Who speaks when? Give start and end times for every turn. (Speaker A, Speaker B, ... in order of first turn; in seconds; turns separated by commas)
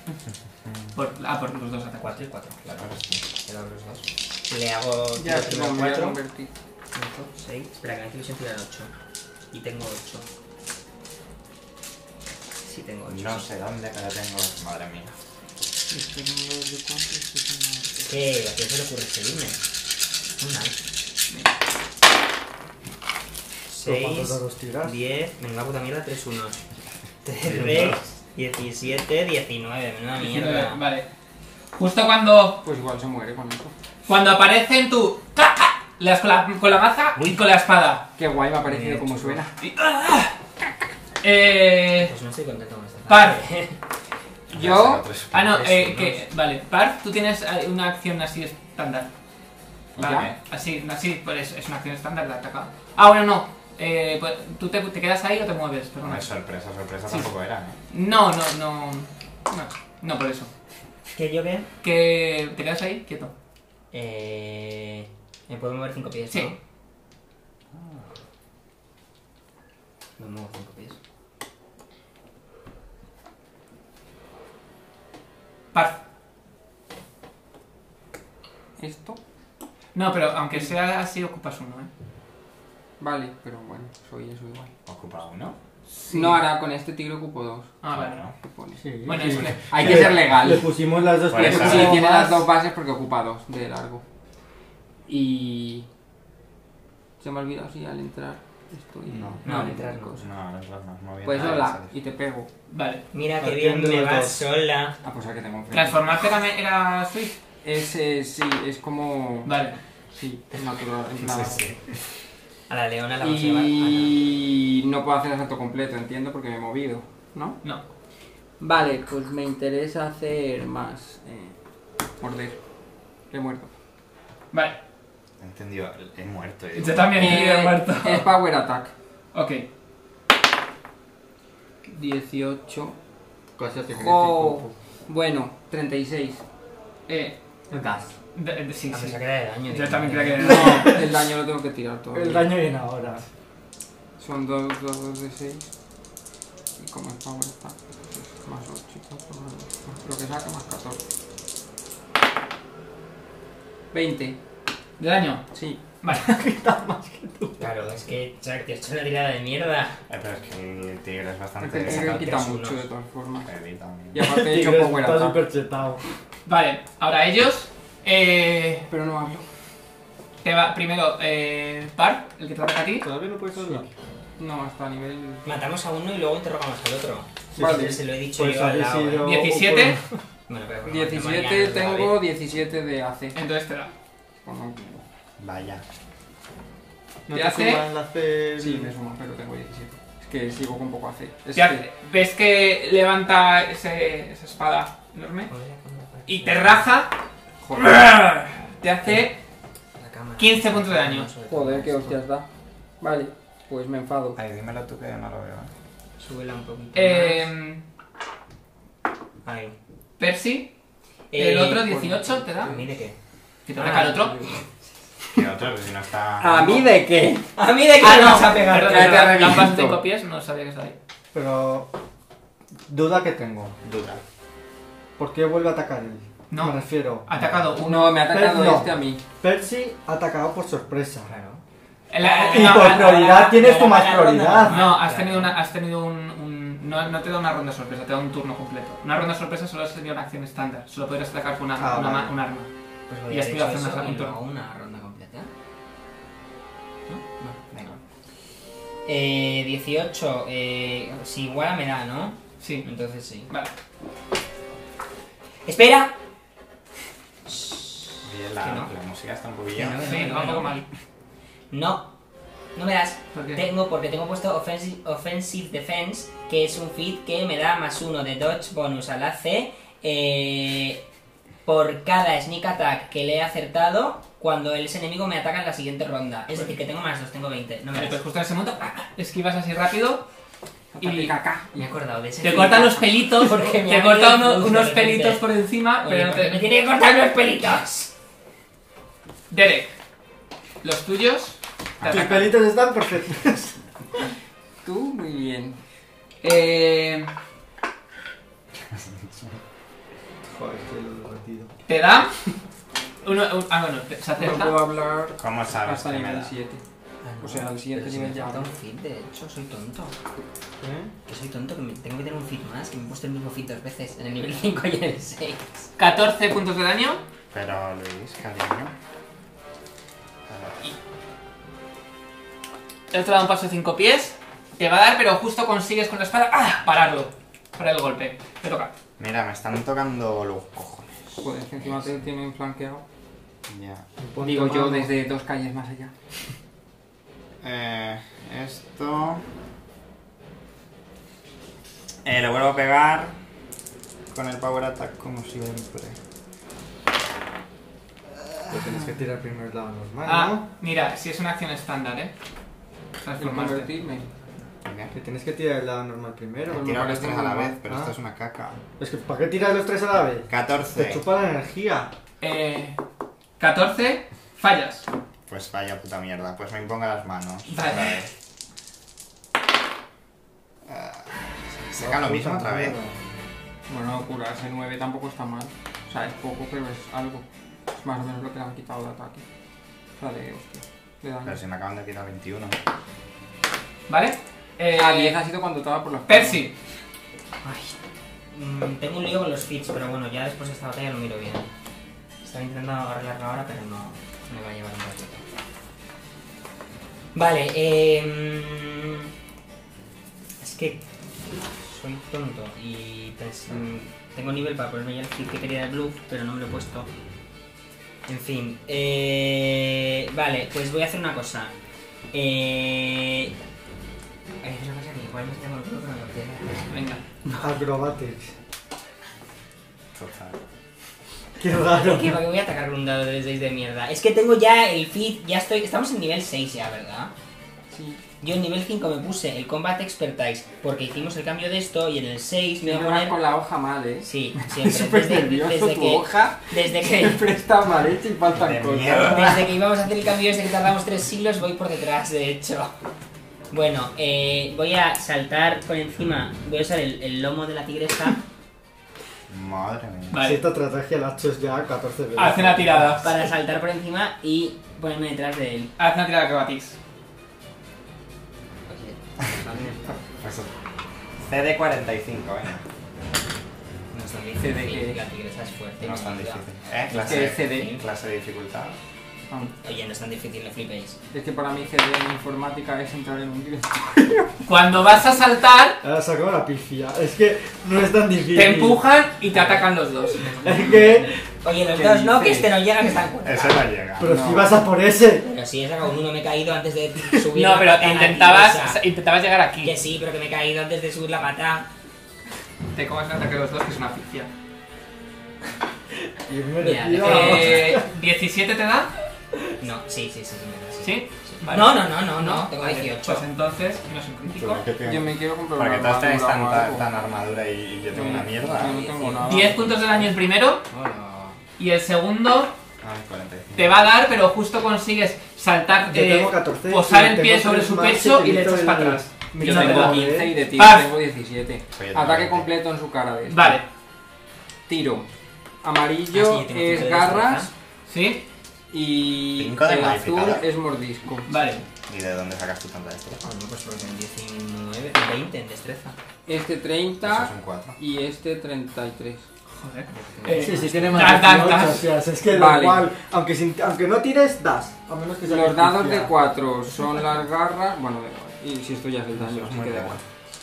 Speaker A: 0.7-0.9, Speaker B: 0.9-2.2, Speaker C: 2.0-6.2, Speaker A: 2.8-3.2, Speaker D: 5.2-6.5, Speaker C: 6.9-8.9, Speaker C: 9.5-10.3, Speaker C: 12.6-13.5, Speaker A: 13.1-15.1, Speaker D: 15.9-18.1, Speaker C: 18.1-19.6, Speaker C: 20.4-20.8, Speaker C: 23.7-26.6, Speaker E: 23.9-24.9, Speaker C: 27.2-30.8, Speaker A: 27.5-28.0, Speaker B: 30.2-31.1, Speaker B: 31.7-32.6, Speaker D: 32.6-33.7, Speaker B: 34.1-38.1, Speaker D: 38.2-39.5, Speaker C: 38.6-39.4, Speaker B: 39.6-40.4, Speaker B: 41.2-42.1, Speaker C: 42.0-43.8, Speaker B: 43.1-43.4, Speaker A: 44.5-45.5, Speaker D: 44.5-44.9, Speaker B: 45.3-49.1, Speaker C: 45.4-46.2, Speaker A: 50.0-50.4, Speaker B: 50.0-56.3, Speaker A: 56.0-57.8, Speaker B: 57.9-60.5, Speaker C: 61.1-61.7, Speaker B: 61.8-63.3, Speaker C: 63.9-66.6, Speaker C: 70.2-71.0, Speaker B: 75.7-76.0, Speaker D: 78.8-79.2, Speaker B: 79.9-81.9, Speaker D: 83.0-84.7, Speaker A: 84.9-85.6, Speaker B: 85.9-86.4, Speaker D: 86.1-87.7, Speaker B: 87.8-88.2, Speaker A: 87.9-88.3, Speaker D: 88.4-90.8, Speaker E: 88.8-92.1, Speaker B: 89.0-90.0, Speaker A: 89.8-90.1, Speaker A: 91.3-92.0, Speaker D: 91.3-94.0, Speaker B: 91.5-92.4, Speaker D: 95.1-95.9, Speaker D: 97.2-100.2, Speaker C: 99.4-100.2, Speaker B: 99.5-99.7, Speaker A: 100.2-101.9, Speaker D: 101.2-102.5, Speaker B: 102.7-103.0, Speaker C: 103.1-105.0, Speaker E: 103.4-104.5, Speaker D: 105.0-106.0, Speaker B: 105.7-107.4, Speaker D: 107.6-109.6, Speaker B: 109.5-109.8, Speaker D: 110.1-111.8, Speaker A: 111.2-111.8, Speaker C: 112.7-114.2, Speaker D: 113.2-117.6, Speaker D: 118.6-121.6, Speaker D: 122.2-122.6, Speaker D: 123.3-123.7, Speaker B: 124.5-124.8, Speaker A: 125.4-127.4, Speaker B: 126.8-128.3, Speaker D: 127.2-128.9, Speaker B: 129.3-129.7, Speaker D: 131.8-133.0, Speaker E: 133.6-134.7, Speaker D: 133.9-136.4, Speaker B: 137.1-137.4, Speaker E: 137.7-138.1, Speaker B: 138.3-141.1, Speaker C: 138.9-140.6, Speaker D: 140.4-142.5, Speaker E: 140.5-141.1, Speaker E: 142.1-143.2, Speaker D: 144.2-145.7, Speaker D: 146.8-151.0, Speaker D: 153.9-154.4, Speaker B: 155.0-156.4, Speaker D: 155.5-155.8, Speaker E: 156.1-157.6, Speaker C: 157.6-160.0, Speaker A: 160.1-162.3, Speaker D: 161.6-163.5, Speaker C: 161.8-162.9, Speaker A: 163.4-164.3, Speaker D: 164.1-165.4, Speaker E: 164.2-166.0, Speaker B: 166.5-168.9, Speaker D: 168.9-169.4, Speaker B: 170.4-173.1, Speaker E: 173.0-173.9, Speaker D: 174.4-175.5, Speaker C: 175.4-179.3, Speaker E: 177.6-180.0, Speaker D: 177.6-178.0, Speaker B: 179.2-180.0, Speaker C: 180.5-182.2, Speaker D: 180.9-183.4, Speaker B: 183.3-183.9, Speaker D: 184.4-185.0, Speaker A: 185.4-185.8, Speaker E: 187.3-188.9, Speaker B: 187.3-187.9, Speaker D: 188.6-191.8, Speaker B: 191.6-195.5, Speaker C: 195.5-196.9, Speaker B: 196.3-197.2, Speaker D: 197.6-198.1, Speaker B: 197.8-199.4, Speaker C: 200.0-202.2, Speaker B: 200.4-201.3, Speaker D: 201.4-202.5, Speaker D: 203.0-204.4, Speaker A: 204.4-205.7, Speaker C: 206.2-207.5, Speaker B: 206.9-207.8, Speaker C: 209.4-209.8, Speaker B: 210.2-210.7, Speaker C: 211.3-213.2, Speaker B: 211.3-212.8, Speaker B: 213.7-214.4, Speaker C: 213.8-214.6, Speaker A: 215.3-216.9, Speaker D: 216.4-217.5, Speaker C: 217.6-219.4, Speaker B: 218.0-221.0, Speaker D: 218.7-220.0, Speaker E: 221.3-221.9, Speaker E: 222.9-223.8, Speaker A: 223.8-224.2, Speaker E: 225.2-227.6, Speaker B: 226.5-228.3, Speaker D: 227.8-229.2, Speaker E: 228.2-231.3, Speaker C: 231.3-231.6, Speaker B: 232.1-233.6, Speaker C: 232.2-235.6, Speaker E: 232.4-234.8, Speaker B: 234.7-242.7, Speaker E: 241.8-242.3, Speaker C: 243.1-245.5, Speaker B: 243.3-244.4, Speaker C: 247.1-248.0, Speaker C: 249.1-253.5, Speaker B: 252.6-252.9, Speaker C: 255.7-256.1, Speaker C: 257.5-258.9, Speaker A: 258.2-260.1, Speaker C: 259.8-260.8, Speaker B: 260.0-260.9, Speaker C: 261.7-262.1, Speaker C: 262.8-271.0, Speaker B: 263.3-263.6, Speaker C: 271.6-278.2, Speaker B: 277.9-280.3, Speaker D: 280.9-281.9, Speaker B: 281.0-281.4, Speaker C: 281.7-285.4, Speaker B: 282.4-286.6, Speaker C: 286.0-288.1, Speaker B: 289.5-289.9, Speaker B: 290.8-292.6, Speaker A: 292.0-292.3, Speaker E: 292.1-293.8, Speaker D: 294.8-295.8, Speaker B: 296.4-297.3, Speaker A: 298.9-299.6, Speaker E: 300.4-301.7, Speaker B: 301.9-302.3, Speaker B: 303.2-304.8, Speaker D: 304.4-306.8, Speaker A: 305.4-306.5, Speaker C: 307.2-310.1, Speaker D: 307.4-308.7, Speaker E: 310.8-311.1, Speaker C: 311.3-315.9, Speaker B: 316.0-317.2, Speaker A: 317.5-318.9, Speaker A: 320.5-320.9, Speaker B: 323.1-328.9, Speaker A: 329.2-331.4, Speaker D: 331.4-333.0, Speaker A: 333.7-334.1, Speaker E: 334.2-335.1, Speaker D: 334.4-336.1, Speaker A: 337.6-339.4, Speaker A: 342.2-343.4, Speaker A: 344.3-346.2, Speaker A: 348.4-349.0, Speaker E: 348.7-350.6, Speaker B: 350.2-352.3, Speaker B: 353.2-353.9, Speaker D: 353.4-354.3, Speaker A: 354.9-355.1, Speaker E: 355.1-357.0, Speaker A: 356.7-358.8, Speaker D: 356.7-357.8, Speaker E: 357.9-358.1, Speaker E: 359.0-362.1, Speaker A: 360.5-361.2, Speaker B: 362.4-363.0, Speaker B: 363.6-365.1, Speaker A: 365.5-368.3, Speaker B: 367.7-368.2, Speaker A: 370.9-373.0, Speaker E: 372.0-373.1, Speaker D: 373.9-379.4, Speaker D: 380.2-381.6, Speaker A: 381.4-382.8, Speaker B: 384.1-385.4, Speaker D: 384.9-386.7, Speaker B: 386.3-386.7, Speaker C: 387.6-388.0, Speaker C: 388.5-391.7, Speaker C: 392.4-395.4, Speaker C: 397.4-399.3, Speaker C: 400.6-401.0, Speaker C: 401.8-407.1, Speaker C: 408.3-411.7, Speaker C: 412.3-413.5, Speaker C: 414.6-417.0, Speaker B: 416.9-417.2, Speaker E: 417.6-418.5, Speaker A: 420.1-420.6, Speaker E: 421.6-422.4, Speaker C: 421.9-427.3, Speaker D: 427.9-428.2, Speaker C: 428.4-433.4, Speaker D: 432.8-439.5, Speaker C: 434.2-437.4, Speaker A: 438.5-439.7, Speaker C: 439.1-442.9, Speaker C: 443.7-448.4, Speaker A: 449.5-450.4, Speaker B: 450.3-450.6, Speaker E: 450.4-453.2, Speaker B: 452.4-453.3, Speaker C: 453.2-455.9, Speaker B: 456.0-457.0, Speaker C: 458.9-460.1, Speaker A: 460.4-460.7, Speaker A: 461.4-462.8, Speaker C: 464.1-468.1, Speaker D: 464.6-465.2, Speaker A: 466.0-469.0, Speaker D: 467.2-467.9, Speaker C: 469.6-471.2, Speaker D: 471.3-474.6, Speaker B: 474.7-476.0, Speaker E: 476.0-479.0, Speaker B: 478.5-480.4, Speaker C: 479.5-483.9, Speaker E: 480.5-481.4, Speaker D: 481.9-482.7, Speaker A: 483.4-484.4, Speaker E: 484.2-485.5, Speaker D: 484.2-484.8, Speaker C: 485.4-489.0, Speaker B: 487.6-489.9, Speaker C: 489.8-491.9, Speaker B: 492.9-494.5, Speaker E: 496.5-498.1, Speaker C: 496.8-498.0, Speaker B: 497.2-499.1, Speaker C: 499.8-503.4, Speaker B: 501.0-504.9, Speaker A: 504.5-509.0, Speaker D: 505.0-507.1, Speaker D: 508.1-509.9, Speaker C: 508.6-510.3, Speaker B: 509.5-510.8, Speaker C: 510.9-511.6, Speaker B: 511.8-512.8, Speaker A: 513.0-514.0, Speaker B: 513.8-521.1, Speaker E: 516.1-520.6, Speaker D: 519.6-523.8, Speaker A: 521.9-522.7, Speaker B: 523.5-523.9, Speaker D: 524.9-525.3, Speaker D: 525.8-527.7, Speaker C: 526.3-527.7, Speaker B: 528.1-528.5, Speaker D: 528.9-531.6, Speaker A: 529.6-530.6, Speaker B: 531.5-531.9, Speaker A: 532.1-533.4, Speaker C: 533.4-536.2, Speaker D: 536.5-539.5, Speaker A: 537.2-538.0, Speaker B: 539.8-542.1, Speaker C: 540.1-541.5, Speaker E: 540.6-546.3, Speaker D: 542.4-543.1, Speaker D: 545.5-550.2, Speaker A: 549.4-550.2